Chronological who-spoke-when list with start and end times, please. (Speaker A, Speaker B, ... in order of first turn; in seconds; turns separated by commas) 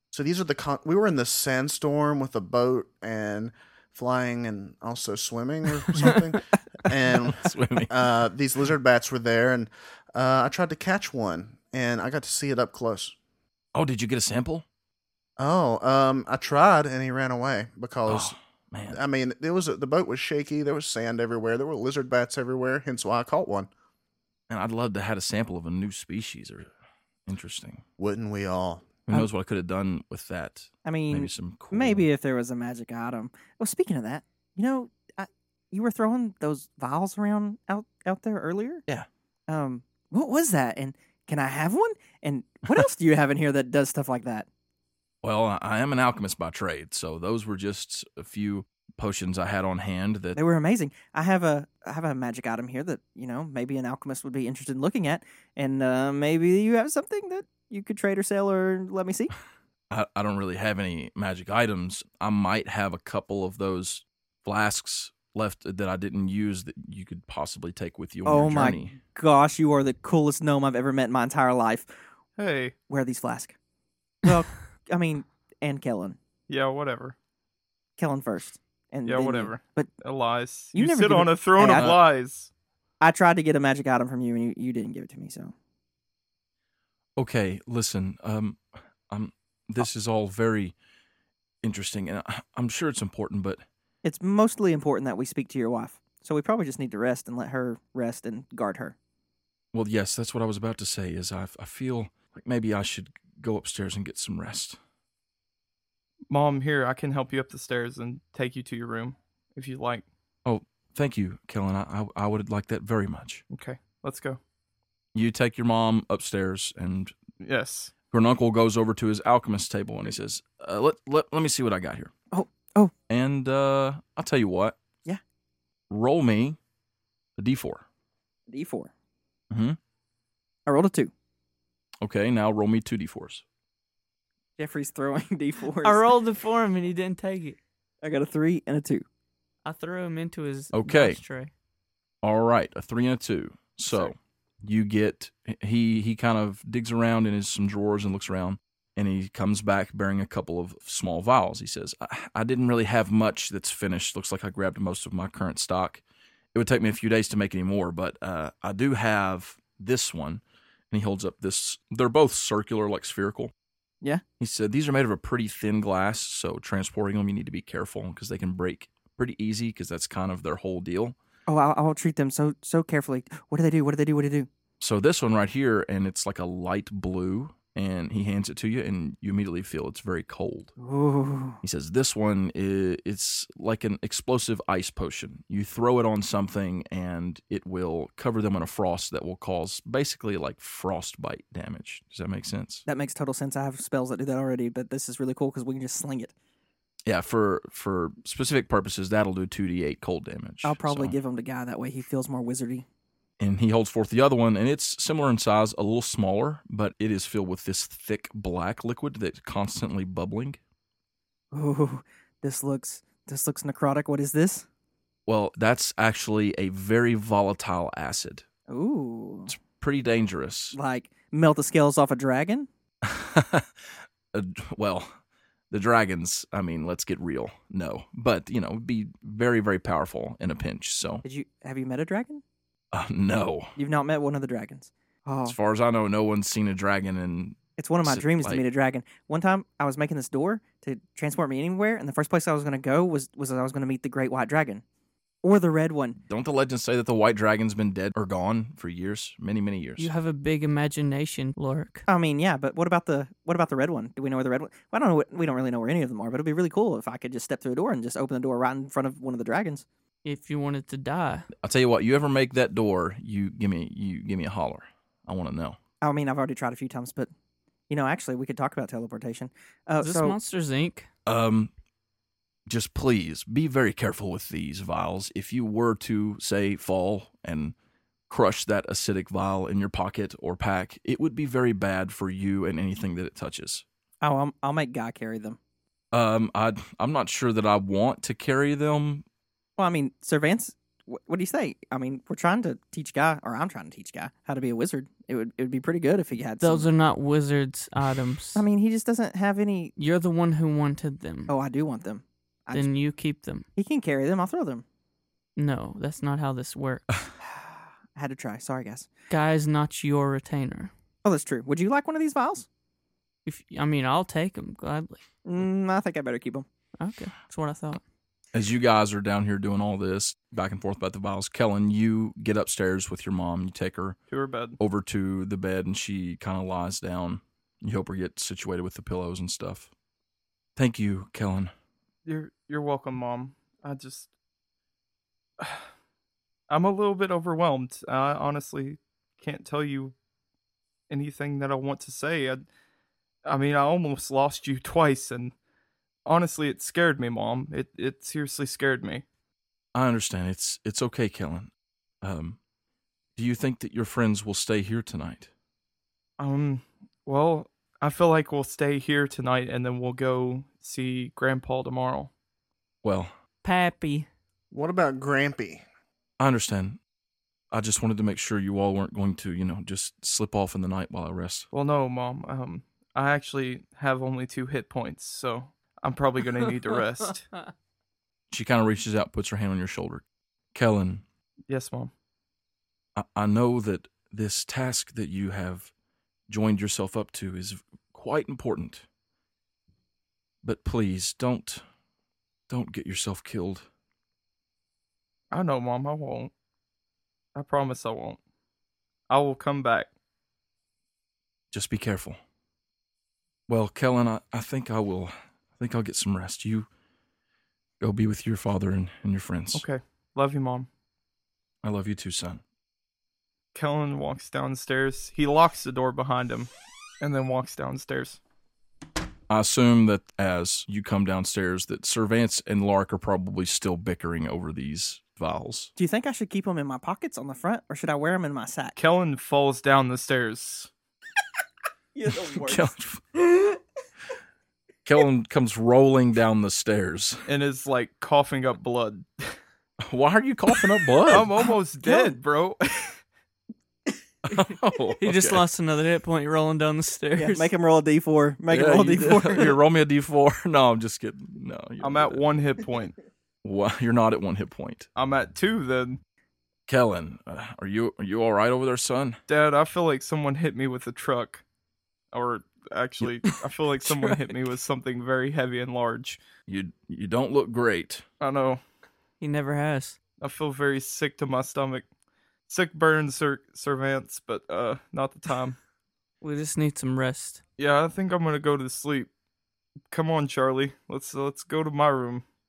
Speaker A: 0.1-13.2, Speaker B: 7.2-7.9, Speaker B: 13.7-14.7, Speaker A: 15.4-18.4, Speaker B: 18.1-19.0, Speaker A: 18.9-23.7, Speaker B: 24.5-26.7, Speaker B: 27.3-27.8, Speaker A: 28.0-28.9, Speaker B: 29.1-32.1, Speaker C: 30.9-38.8, Speaker C: 39.5-44.5, Speaker B: 45.2-50.4, Speaker C: 50.4-59.3, Speaker B: 59.9-69.0, Speaker C: 68.3-71.9, Speaker D: 72.4-72.8, Speaker C: 72.9-73.6, Speaker C: 74.2-76.2, Speaker D: 76.5-77.2, Speaker C: 78.0-79.9, Speaker D: 79.0-82.5, Speaker C: 80.7-82.0, Speaker B: 81.7-82.0, Speaker C: 83.0-85.5, Speaker B: 87.2-90.7, Speaker B: 91.6-93.6, Speaker C: 94.0-99.0, Speaker B: 99.7-104.8, Speaker D: 106.3-110.0, Speaker B: 110.5-113.4, Speaker D: 113.5-114.4, Speaker B: 115.2-117.2, Speaker D: 117.4-117.9, Speaker B: 118.1-122.1, Speaker C: 122.3-122.9, Speaker B: 123.1-124.8, Speaker B: 125.9-126.6, Speaker B: 127.4-127.8, Speaker C: 128.5-128.9, Speaker B: 129.5-129.8, Speaker C: 130.7-131.1, Speaker B: 132.0-133.4, Speaker C: 134.6-136.0, Speaker E: 135.8-137.6, Speaker C: 138.0-139.1, Speaker E: 139.7-141.5, Speaker B: 140.7-141.2, Speaker B: 142.2-156.0, Speaker B: 156.5-163.5, Speaker B: 164.4-171.2, Speaker C: 171.5-174.5, Speaker B: 174.8-180.7, Speaker C: 180.8-181.6, Speaker B: 181.6-192.9, Speaker C: 192.9-196.3, Speaker B: 197.1-201.2, Speaker C: 200.6-202.8, Speaker B: 203.4-210.6, Speaker C: 211.5-214.7, Speaker B: 215.3-218.4, Speaker C: 218.7-219.5, Speaker B: 219.5-220.8, Speaker C: 220.7-222.7, Speaker B: 223.0-225.1, Speaker B: 225.7-231.2, Speaker C: 231.2-232.4, Speaker B: 232.9-233.8, Speaker C: 233.8-235.6, Speaker B: 235.4-238.7, Speaker C: 237.8-244.8, Speaker C: 245.4-246.2, Speaker B: 246.3-250.1, Speaker E: 250.0-252.1, Speaker C: 252.1-259.9, Speaker E: 260.2-261.5, Speaker B: 261.6-265.8, Speaker C: 266.0-267.3, Speaker C: 267.9-270.4, Speaker E: 270.0-271.1, Speaker B: 271.3-271.7, Speaker B: 272.7-277.8, Speaker B: 278.3-283.9, Speaker C: 284.2-285.6, Speaker B: 286.1-289.2, Speaker C: 289.8-296.9, Speaker E: 296.6-298.6, Speaker C: 298.6-299.9, Speaker E: 300.0-301.5, Speaker C: 301.5-302.9, Speaker E: 302.7-303.6, Speaker C: 303.8-304.8, Speaker E: 305.6-307.1, Speaker C: 307.4-309.1, Speaker E: 309.3-310.9, Speaker C: 311.2-312.7, Speaker E: 313.5-315.2, Speaker C: 315.4-316.7, Speaker E: 317.0-318.0, Speaker B: 318.5-324.2, Speaker D: 324.3-324.8, Speaker B: 324.8-329.9, Speaker B: 330.8-331.7, Speaker D: 332.3-334.3, Speaker D: 335.6-335.9, Speaker D: 336.7-340.1, Speaker D: 341.1-342.7, Speaker D: 343.4-345.5, Speaker D: 346.3-349.2, Speaker B: 349.9-351.7, Speaker B: 352.2-352.6, Speaker B: 353.4-355.5, Speaker D: 356.4-362.3, Speaker B: 363.0-363.3, Speaker E: 363.6-364.3, Speaker A: 364.7-365.8, Speaker B: 366.4-367.0, Speaker B: 367.7-371.7, Speaker D: 371.7-377.5, Speaker B: 378.5-381.2, Speaker D: 381.7-382.1, Speaker B: 383.2-385.9, Speaker B: 386.5-389.1, Speaker B: 390.6-391.8, Speaker B: 392.7-393.9, Speaker D: 395.5-396.5, Speaker D: 397.6-398.4, Speaker D: 399.3-400.1, Speaker B: 401.7-402.4, Speaker B: 403.7-406.9, Speaker B: 408.0-409.9, Speaker D: 409.7-410.9, Speaker B: 411.8-412.6, Speaker D: 413.7-418.4, Speaker B: 419.5-425.9, Speaker C: 426.0-429.0, Speaker D: 429.0-430.9, Speaker C: 432.1-432.9, Speaker B: 432.3-433.2, Speaker B: 435.1-437.5, Speaker D: 437.5-439.6, Speaker B: 440.0-441.5, Speaker D: 441.3-443.2, Speaker C: 442.1-442.3, Speaker B: 444.4-445.6, Speaker E: 445.2-447.7, Speaker C: 447.3-449.8, Speaker B: 448.7-452.4, Speaker D: 452.0-453.2, Speaker B: 453.6-455.1, Speaker D: 455.2-456.2, Speaker B: 456.9-459.4, Speaker D: 459.5-461.6, Speaker D: 462.3-466.4, Speaker B: 466.7-468.2, Speaker D: 468.4-468.8, Speaker E: 469.4-470.2, Speaker D: 470.4-472.1, Speaker D: 472.7-475.8, Speaker E: 476.4-477.6, Speaker D: 477.8-479.3, Speaker D: 480.1-482.4